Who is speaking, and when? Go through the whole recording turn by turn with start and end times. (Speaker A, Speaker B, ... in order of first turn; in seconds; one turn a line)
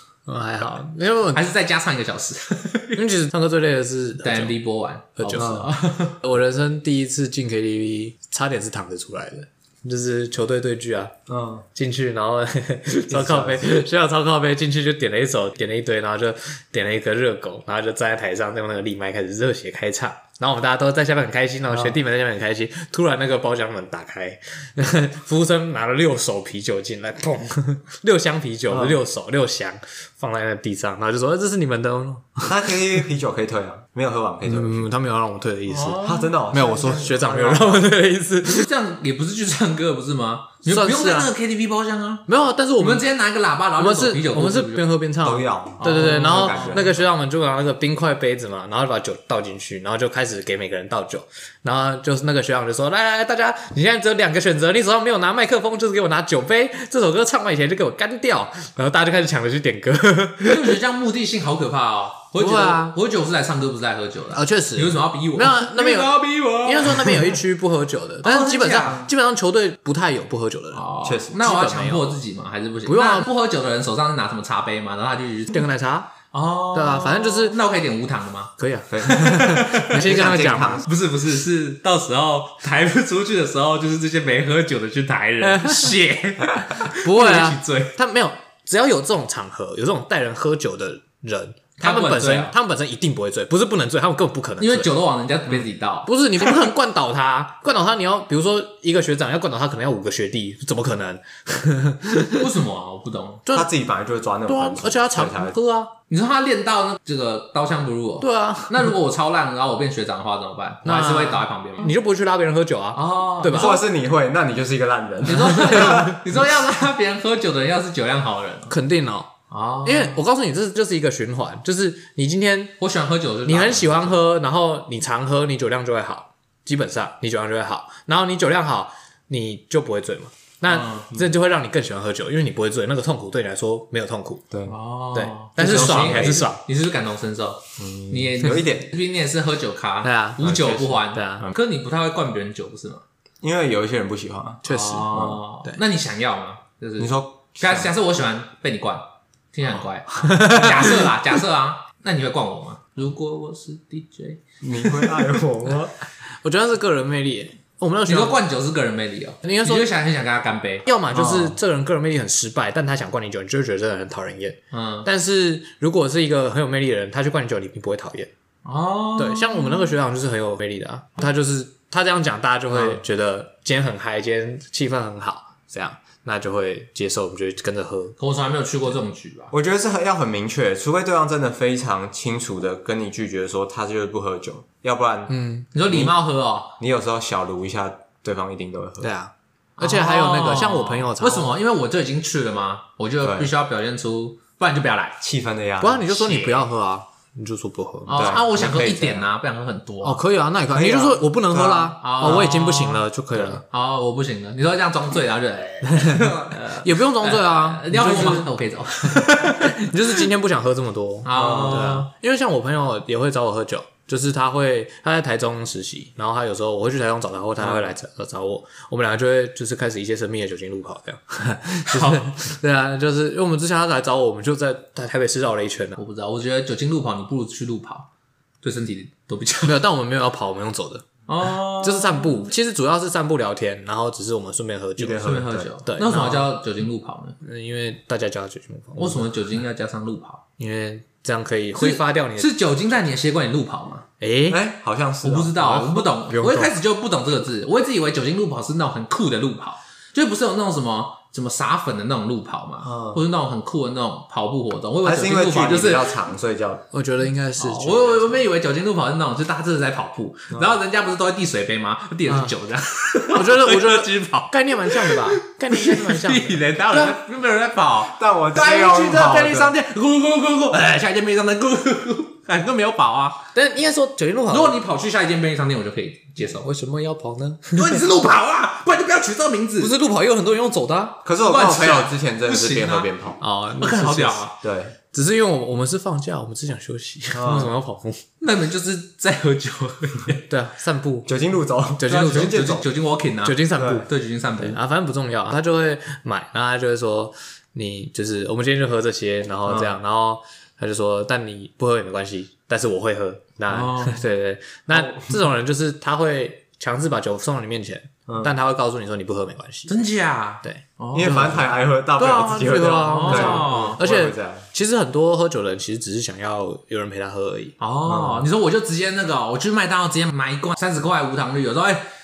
Speaker A: 0.2-1.4
Speaker B: 1.3-3.1
Speaker A: 3.0-4.5
Speaker B: 4.2-6.2
Speaker A: 5.2-11.1
Speaker C: 5.4-5.7
Speaker C: 11.3-11.7
Speaker A: 11.7-32.7
Speaker C: 13.1-13.8
Speaker C: 28.7-29.0
Speaker C: 32.4-34.9
Speaker A: 34.4-38.7
Speaker B: 35.7-36.3
Speaker C: 36.0-37.9
Speaker B: 38.4-42.2
Speaker A: 40.7-41.3
Speaker A: 42.3-43.0
Speaker B: 42.8-44.8
Speaker A: 43.8-60.8
Speaker C: 45.2-47.1
Speaker B: 45.8-46.8
Speaker B: 60.4-67.4
Speaker A: 62.4-62.9
Speaker A: 64.3-72.2
Speaker B: 68.2-69.1
Speaker B: 70.7-75.6
Speaker C: 71.0-71.4
Speaker A: 72.8-73.3
Speaker A: 75.5-76.1
Speaker B: 76.3-87.9
Speaker A: 76.7-77.6
Speaker A: 78.6-80.8
Speaker C: 78.9-80.9
Speaker A: 85.4-86.0
Speaker A: 86.8-94.9
Speaker B: 91.8-92.5
Speaker B: 94.6-96.1
Speaker A: 96.0-102.5
Speaker B: 102.3-103.5
Speaker C: 103.5-105.6
Speaker A: 104.5-105.9
Speaker B: 106.1-111.9
Speaker A: 108.2-108.9
Speaker A: 110.8-113.8
Speaker B: 112.9-113.8
Speaker C: 113.5-116.2
Speaker B: 115.2-118.7
Speaker A: 115.4-116.1
Speaker A: 118.7-122.8
Speaker B: 119.5-120.2
Speaker B: 122.8-124.1
Speaker A: 123.4-134.4
Speaker B: 130.7-131.1
Speaker C: 134.5-134.8
Speaker B: 134.7-143.0
Speaker A: 135.1-136.6
Speaker C: 135.6-136.5
Speaker C: 137.8-138.9
Speaker A: 140.0-141.5
Speaker C: 140.4-141.5
Speaker C: 143.4-145.4
Speaker A: 144.6-145.8
Speaker B: 144.7-154.4
Speaker C: 147.0-147.9
Speaker A: 150.2-151.1
Speaker C: 154.6-155.9
Speaker A: 156.2-158.4
Speaker B: 158.1-160.9
Speaker A: 159.4-159.9
Speaker A: 160.8-168.3
Speaker C: 161.1-161.5
Speaker B: 164.7-165.1
Speaker B: 168.6-169.9
Speaker A: 169.2-178.2
Speaker C: 172.7-173.0
Speaker B: 178.2-179.5
Speaker C: 179.5-186.2
Speaker A: 185.3-185.7
Speaker B: 185.7-186.7
Speaker C: 186.8-189.1
Speaker A: 189.0-191.6
Speaker B: 189.8-195.2
Speaker C: 193.2-193.5
Speaker C: 195.2-196.0
Speaker A: 195.8-198.7
Speaker B: 196.1-196.6
Speaker B: 198.1-200.2
Speaker C: 198.1-199.3
Speaker A: 200.0-203.6
Speaker C: 200.7-202.3
Speaker B: 202.0-210.2
Speaker A: 205.8-226.0
Speaker B: 211.2-212.1
Speaker C: 211.3-211.9
Speaker B: 221.9-222.3
Speaker B: 226.0-228.1
Speaker B: 228.6-229.8
Speaker A: 229.6-231.2
Speaker B: 231.3-232.4
Speaker A: 231.8-235.3
Speaker C: 235.0-235.7
Speaker B: 235.2-237.4
Speaker A: 235.8-236.5
Speaker A: 237.4-239.4
Speaker B: 239.0-240.4
Speaker A: 240.6-243.1
Speaker B: 241.7-244.1
Speaker A: 244.2-244.6
Speaker C: 244.5-246.7
Speaker B: 245.2-256.1
Speaker C: 252.8-253.2
Speaker C: 255.0-256.9
Speaker A: 256.9-258.5
Speaker B: 257.6-273.4
Speaker C: 260.5-260.8
Speaker A: 262.3-262.5
Speaker A: 263.3-267.2
Speaker C: 268.1-269.8
Speaker A: 273.5-274.8
Speaker B: 274.5-276.6
Speaker A: 276.5-278.1
Speaker B: 277.7-279.9
Speaker A: 279.8-281.2
Speaker C: 281.2-283.4
Speaker B: 281.4-283.1
Speaker A: 283.4-284.4
Speaker B: 283.8-284.6
Speaker C: 284.6-284.9
Speaker A: 285.1-288.2
Speaker C: 287.3-287.7
Speaker B: 288.4-290.4
Speaker A: 290.5-291.3
Speaker C: 291.3-292.9
Speaker A: 292.0-292.7
Speaker B: 292.1-294.8
Speaker A: 293.4-309.9
Speaker C: 293.7-294.1
Speaker C: 299.6-299.9
Speaker B: 303.7-304.2
Speaker C: 304.9-305.4
Speaker C: 308.3-308.5
Speaker B: 309.9-311.7
Speaker A: 310.6-311.6
Speaker C: 311.1-314.7
Speaker A: 312.2-317.8
Speaker B: 313.0-314.0
Speaker B: 317.8-322.1
Speaker C: 318.1-318.5